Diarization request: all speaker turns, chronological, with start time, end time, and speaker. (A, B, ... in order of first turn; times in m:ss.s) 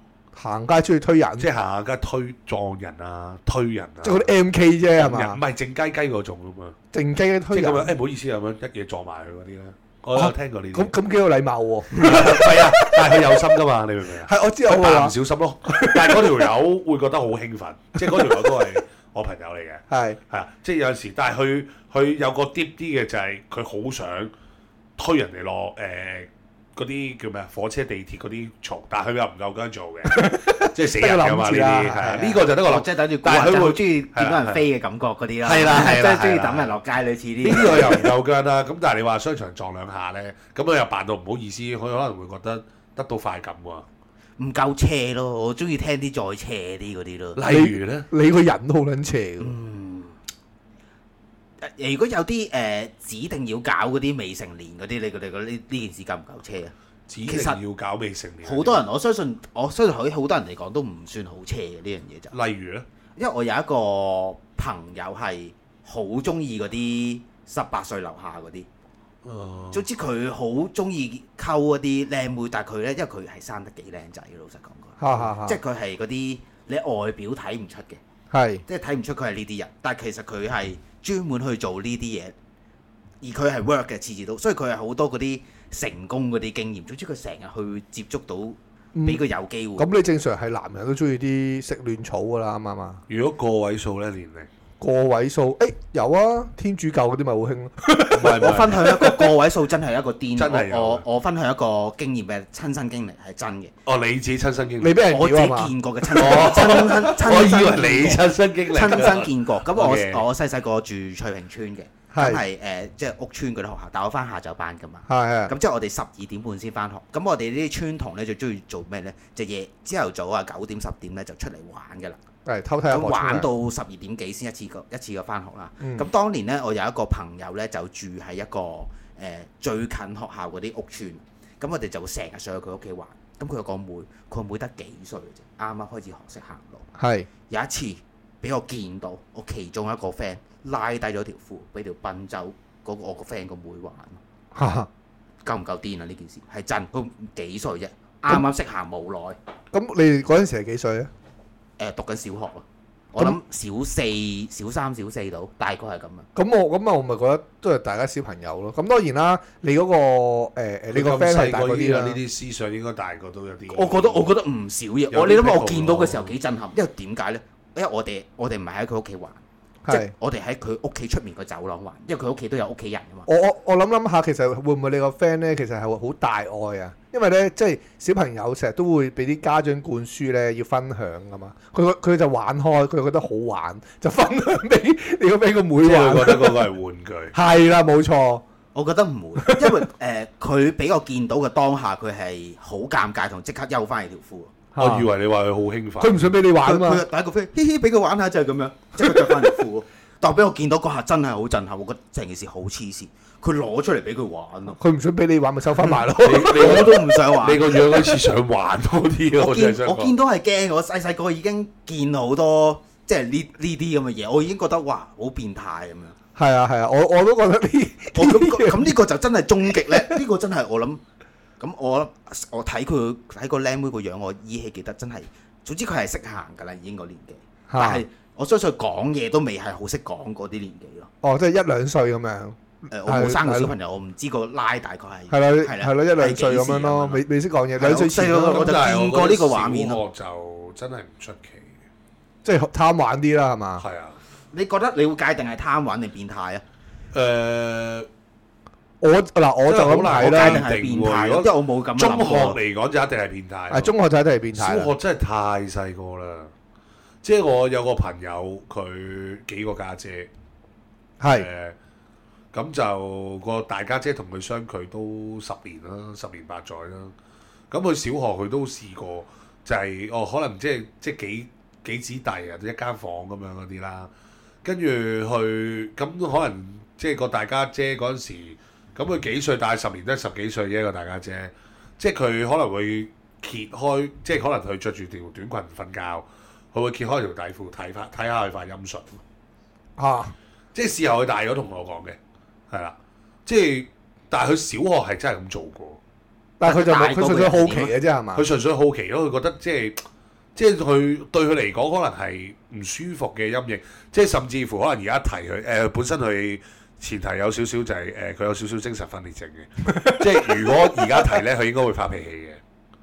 0:00.4-0:01.5 A
0:01.4-0:04.3 B
0:04.0-0:05.4 A
0:05.0-0:06.8 B
0:06.9-0:07.9 A
0:07.5-0:10.9 B
0:10.2-0:13.4 A
0:11.9-0:24.3 B
0:14.2-0:15.2 A
0:15.7-0:16.5 A
0:18.0-0:18.8 A
0:19.9-0:20.2 A
0:25.0-0:34.6 B
0:30.1-0:32.4 A
0:32.5-0:38.1 C
0:35.4-0:36.8 B
0:37.4-0:43.9 B
0:44.4-0:47.4 C
0:47.4-0:48.1 B
0:47.4-0:49.6 A
0:49.4-0:50.2 C
0:51.6-0:56.7 C
0:57.1-0:58.8 B
0:57.3-0:57.6 C
0:58.4-1:02.4 C
1:02.3-1:02.9 B
1:03.2-1:08.7 C
1:09.2-1:09.8 B
1:09.7-1:18.0 C
1:15.0-1:15.6 A
1:18.3-1:18.6 A
1:18.7-1:22.4 C
1:23.2-1:29.9 C
1:28.9-1:29.2 A
1:29.8-1:33.0 A
1:33.1-1:34.5 B
1:34.8-1:39.3 A
1:38.1-1:38.8 B
1:38.4-1:43.7 C
1:40.4-1:41.0 B
1:43.9-1:45.0 B
1:44.8-1:46.6 A
1:45.1-2:02.2 C
1:46.1-1:50.2 B
1:52.1-1:52.4 A
1:55.1-1:55.5 A
2:02.4-2:03.5 A
2:02.9-2:16.9 C
2:05.8-2:06.1 A
2:17.0-2:17.3 A
2:17.5-2:24.2 C
2:24.5-2:24.9 A
2:25.4-2:29.4 C
2:29.7-2:31.1 A
2:31.8-2:36.3 C
2:36.4-2:42.2 A
2:40.9-2:44.3 B
2:43.7-2:53.3 C
2:45.1-2:46.3 B
2:49.8-2:50.1 A
2:53.3-3:06.7 A
3:05.8-3:07.3 B
3:07.3-3:08.4 A
3:08.8-3:14.5 C
3:09.4-3:09.8 A
3:14.8-3:15.1 A
3:14.8-3:16.3 B
3:16.0-3:17.0 A
3:16.6-3:24.8 C
3:19.0-3:19.5 A
3:24.8-3:27.2 A
3:26.2-3:30.1 B
3:26.4-3:27.9 C
3:29.3-3:36.2 C
3:36.4-3:39.0 A
3:38.1-3:41.0 C
3:39.7-3:40.2 A
3:41.6-3:51.1 C
3:47.7-3:48.0 A
3:51.2-3:53.7 A
3:52.9-3:57.2 C
3:55.3-3:58.8 A
3:57.8-4:00.0 C
3:58.5-4:01.7 B
4:02.4-4:03.8 A
4:03.8-4:04.2 B
4:04.5-4:06.6 C
4:07.1-4:08.1 B
4:09.0-4:10.6 A
4:09.7-4:13.9 B
4:10.2-4:12.6 C
4:13.7-4:14.9 A
4:14.5-4:16.5 B
4:17.2-4:20.3 B
4:21.2-4:21.5 A
4:21.3-4:21.8 B
4:22.5-4:27.1 B
4:27.7-4:34.1 B
4:34.6-4:49.2 B
4:50.0-4:50.4 A
4:50.8-4:52.2 B
4:52.7-4:56.0 B
4:56.6-4:58.4 A
4:56.6-4:57.9 C
4:58.4-5:00.0 B
5:00.6-5:12.6 B
5:09.9-5:11.4 A